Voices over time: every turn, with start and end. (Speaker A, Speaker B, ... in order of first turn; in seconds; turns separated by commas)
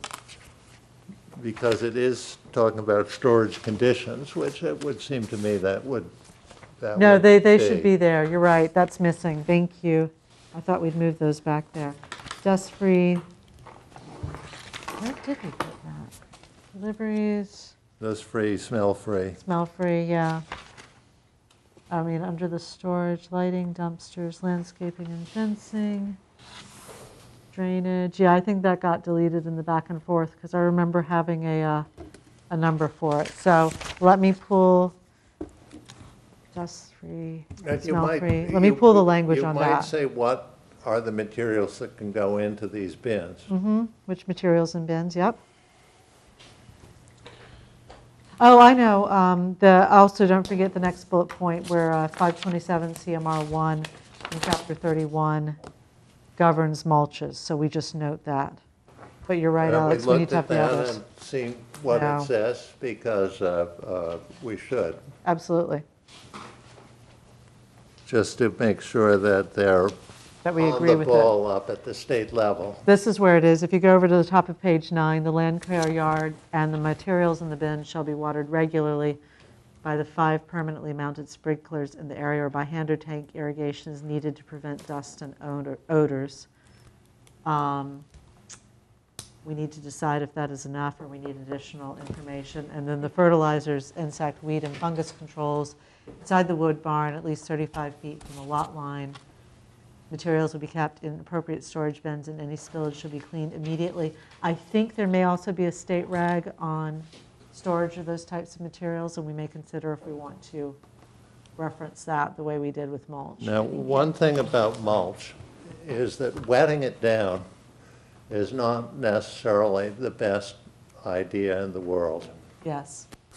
Speaker A: 1.4-6.1, Speaker A: 6.8-7.9, Speaker B: 7.0-13.2, Speaker B: 15.0-16.1, Speaker B: 16.7-17.8, Speaker A: 18.0-19.4, Speaker B: 19.4-20.4, Speaker B: 21.9-26.2, Speaker B: 27.5-31.9, Speaker B: 32.5-35.0, Speaker B: 36.5-39.9, Speaker A: 37.6-43.5, Speaker B: 43.5-45.4, Speaker B: 48.4-55.6, Speaker B: 56.4-58.6, Speaker B: 59.3-61.0, Speaker A: 59.6-65.0, Speaker B: 61.9-62.3, Speaker B: 65.2-65.8, Speaker A: 68.0-70.0, Speaker B: 70.4-71.3, Speaker A: 70.6-72.8, Speaker B: 72.9-79.2, Speaker B: 79.8-86.5, Speaker B: 87.5-88.0, Speaker B: 89.4-99.2, Speaker B: 100.1-110.8, Speaker B: 111.6-113.6, Speaker A: 113.4-117.5, Speaker A: 118.3-122.3, Speaker B: 122.6-123.1